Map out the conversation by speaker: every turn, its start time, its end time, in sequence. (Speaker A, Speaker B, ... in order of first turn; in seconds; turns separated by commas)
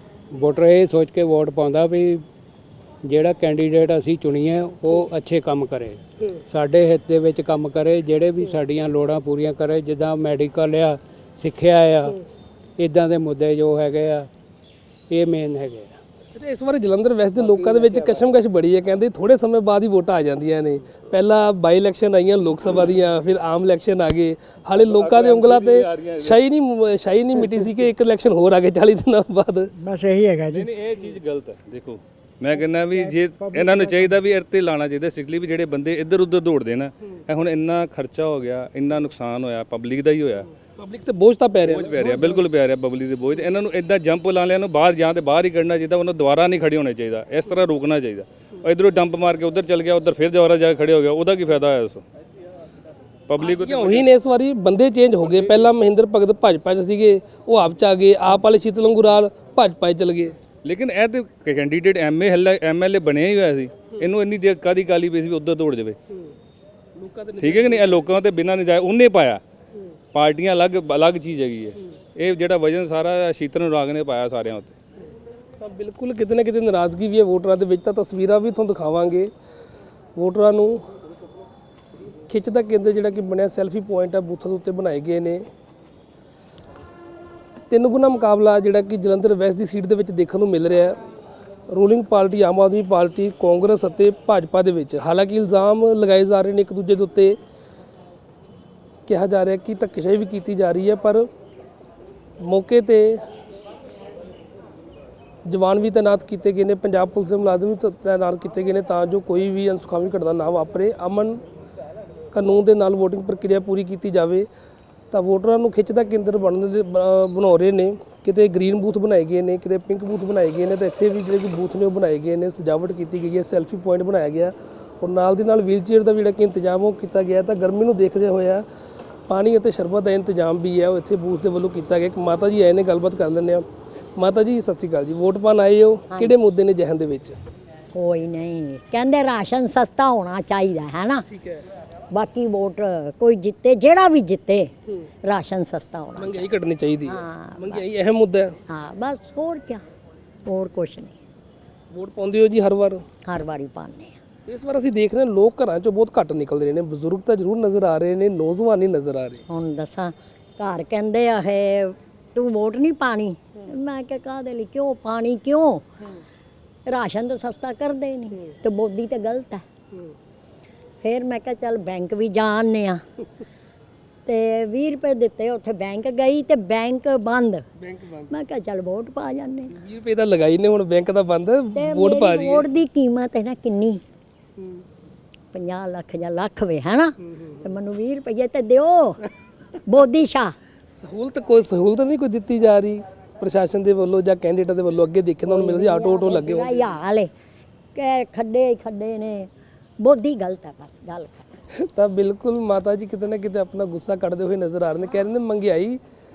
Speaker A: 0.3-2.2, Speaker A: 3.0-12.1, Speaker A: 12.8-14.3, Speaker A: 15.1-15.9, Speaker B: 16.3-29.7, Speaker C: 24.8-26.4, Speaker D: 29.8-30.7, Speaker C: 30.5-40.5, Speaker D: 33.0-34.1, Speaker B: 40.8-42.4, Speaker C: 41.6-52.0, Speaker C: 53.3-54.1, Speaker B: 53.4-60.4, Speaker C: 60.6-66.0, Speaker B: 67.0-68.1, Speaker C: 67.4-69.4, Speaker C: 70.1-74.8, Speaker B: 75.6-79.3, Speaker B: 80.2-80.8, Speaker B: 82.3-85.4, Speaker B: 87.7-91.0, Speaker B: 91.7-97.4, Speaker B: 99.1-101.3, Speaker B: 102.4-103.2, Speaker B: 105.5-111.4, Speaker B: 112.3-114.5, Speaker B: 115.1-128.7, Speaker B: 129.3-133.6, Speaker B: 134.2-137.4, Speaker E: 137.9-141.2, Speaker B: 141.3-141.6, Speaker E: 142.1-144.7, Speaker E: 145.2-146.5, Speaker B: 146.2-148.6, Speaker E: 147.1-148.0, Speaker E: 148.7-149.8, Speaker E: 150.5-151.2, Speaker B: 151.9-153.0, Speaker E: 153.2-154.1, Speaker B: 154.5-159.4, Speaker E: 159.5-165.9, Speaker E: 166.9-169.6, Speaker E: 171.0-173.0, Speaker E: 174.3-177.7, Speaker B: 177.8-178.3, Speaker E: 178.3-179.7, Speaker B: 179.8-182.7, Speaker E: 181.8-184.0, Speaker E: 185.5-189.3, Speaker E: 189.9-190.5, Speaker B: 191.0-196.8, Speaker E: 195.5-197.3, Speaker E: 197.9-201.5, Speaker B: 201.8-206.0